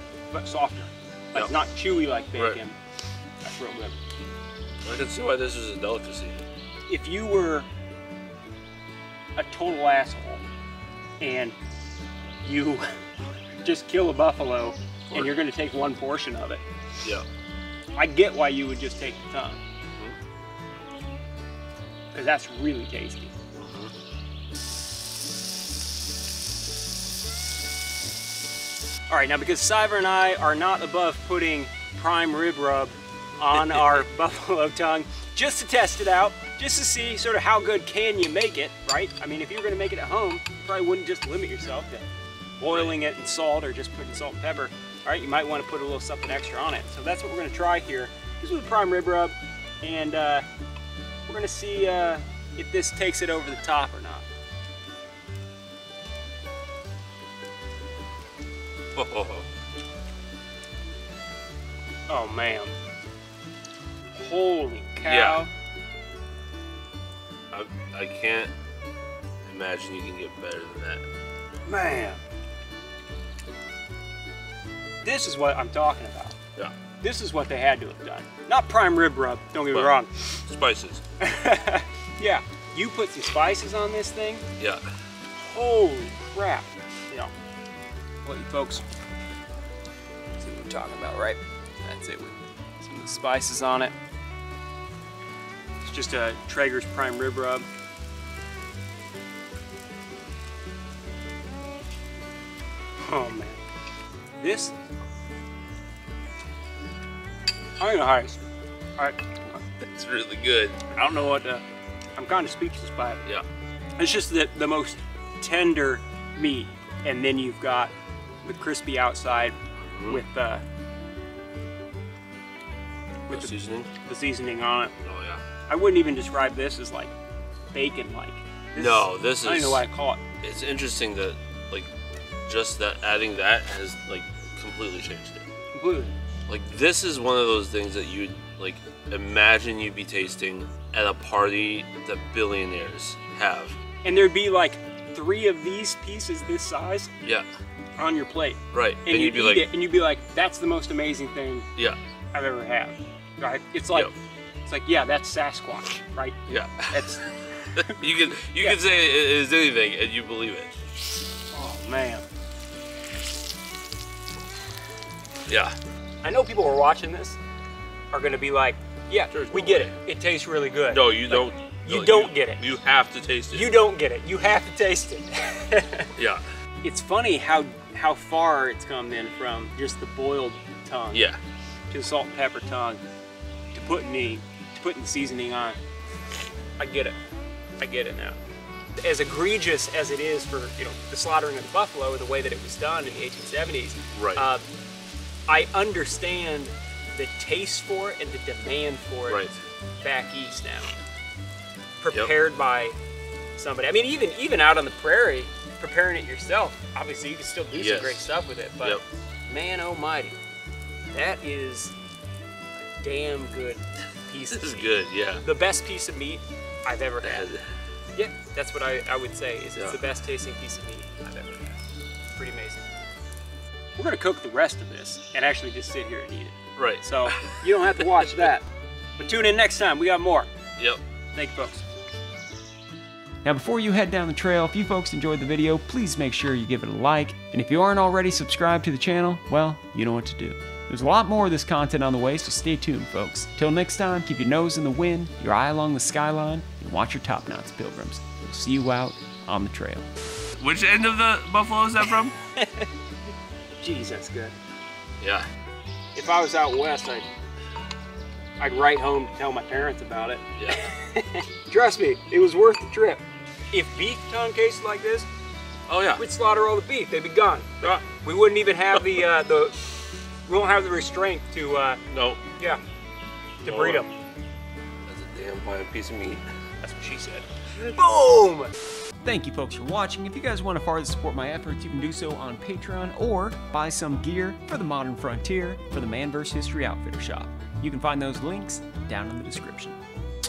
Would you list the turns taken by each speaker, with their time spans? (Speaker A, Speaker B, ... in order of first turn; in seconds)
Speaker A: 0.3-2.8, 3.4-4.0, 6.9-7.7, 9.3-10.4, 11.2-11.6, 12.4-13.1, 13.6-16.6, 17.9-19.6, 22.1-23.3, 29.1-42.0, 42.6-50.5, 51.3-54.2, 62.1-62.8, 64.1-65.5, 71.7-72.2, 75.0-76.3, 77.0-80.1, 81.2-84.5, 85.4-87.3, 88.2-88.8, 90.3-93.9, 95.8-97.7, 103.0-103.6, 104.4-104.7, 107.8-108.4, 109.0-109.6, 110.9-111.6, 112.2-113.2, 114.0-117.9, 118.4-119.5, 120.1-120.6, 123.3-124.9, 125.7-127.1, 127.7-130.2, 135.7-136.1, 144.0-147.1, 148.0-151.7, 152.3-154.1, 154.6-156.4, 156.9-157.2, 161.5-162.2, 166.2-167.4, 168.1-172.6, 173.5-176.1, 176.8-181.2, 181.9-183.0, 183.7-185.8, 186.8-187.2, 187.8-188.4, 188.9-194.7, 195.5-199.4, 200.0-200.9, 202.0-203.0, 203.6-210.3, 211.1-211.9, 212.8-217.5, 218.1-221.7, 222.3-222.9, 223.9-228.7, 229.2-230.5, 231.3-231.8, 252.6-252.9, 253.8-254.5, 256.1-257.3, 258.6-265.3, 266.2-269.8, 270.4-272.0, 273.6-274.1, 276.8-278.7
Speaker B: 4.8-6.4, 23.6-23.9, 59.0-59.5, 65.1-65.4, 67.5-68.5, 69.4-71.0, 79.7-81.0, 84.6-84.8, 109.8-110.8, 119.8-120.2, 123.3-123.9, 125.0-125.4, 128.7-129.8, 130.4-131.9, 132.5-135.5, 136.5-143.8, 148.7-149.7, 156.5-157.2, 157.8-160.7, 165.5-165.8, 169.3-169.9, 170.9-173.8, 176.2-176.4, 181.1-181.4, 194.1-194.4, 199.3-199.6, 207.7-208.2, 214.5-215.4, 217.2-217.6, 226.8-228.2, 250.6-252.3, 255.2-255.5, 260.6-260.9, 265.9-266.2, 272.1-272.4, 273.6-274.0, 275.1-276.4
Speaker C: 233.4-250.1, 279.2-290.0